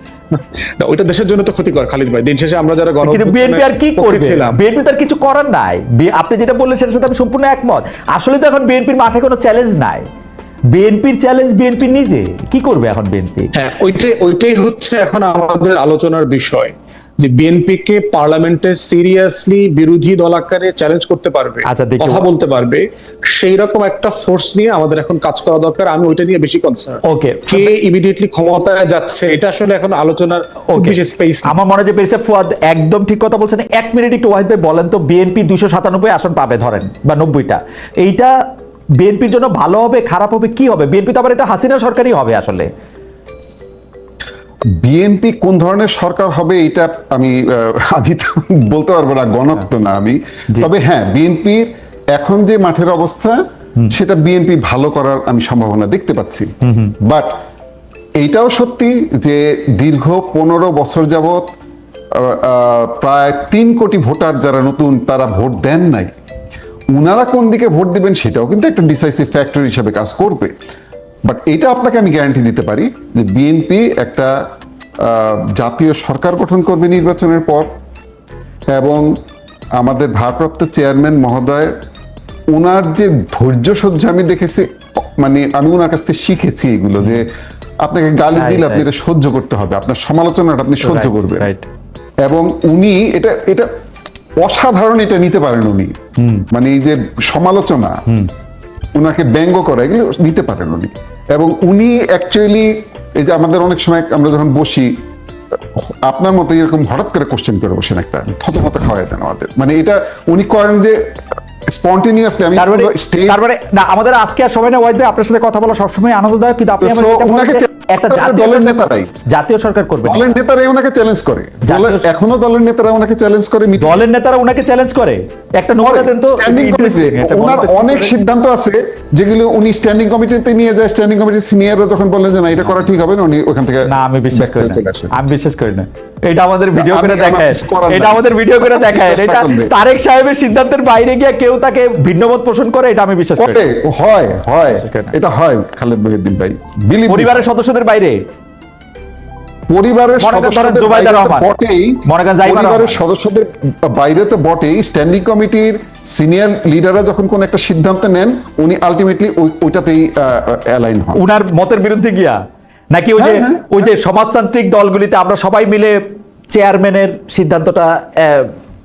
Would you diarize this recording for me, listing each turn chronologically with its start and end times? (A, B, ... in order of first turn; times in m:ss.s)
0:00.3-0:04.6 A
0:03.0-0:10.0 B
0:10.7-0:13.5 B
0:13.5-0:31.5 A
0:21.6-0:22.3 B
0:27.0-0:27.7 B
0:30.7-0:38.3 B
0:39.0-0:42.7 B
0:44.7-0:53.4 C
0:53.9-0:57.4 C
0:56.6-0:56.9 B
0:58.2-1:01.5 C
1:02.1-1:06.1 C
1:06.9-1:10.5 C
1:11.2-1:14.4 C
1:15.0-1:17.7 C
1:18.7-1:19.2 C
1:19.7-1:21.7 C
1:22.5-1:27.3 C
1:27.8-1:31.5 C
1:28.4-1:28.8 B
1:30.8-1:31.6 B
1:32.2-1:33.7 C
1:34.4-1:35.9 C
1:36.2-1:36.5 B
1:36.5-1:38.0 C
1:38.9-1:45.0 C
1:45.7-1:53.4 C
1:52.5-2:00.3 B
1:56.8-1:59.1 C
2:00.0-2:04.0 C
2:01.6-2:02.1 B
2:03.8-2:08.2 B
2:05.8-2:15.1 C
2:13.9-2:23.6 B
2:16.7-2:19.7 C
2:23.4-2:27.5 C
2:24.7-2:25.1 B
2:27.1-2:28.2 B
2:29.7-2:41.2 C
2:30.2-2:31.5 B
2:32.0-2:33.0 B
2:41.2-2:42.4 B
2:42.9-2:46.0 B
2:43.2-2:43.7 C
2:46.5-2:48.5 B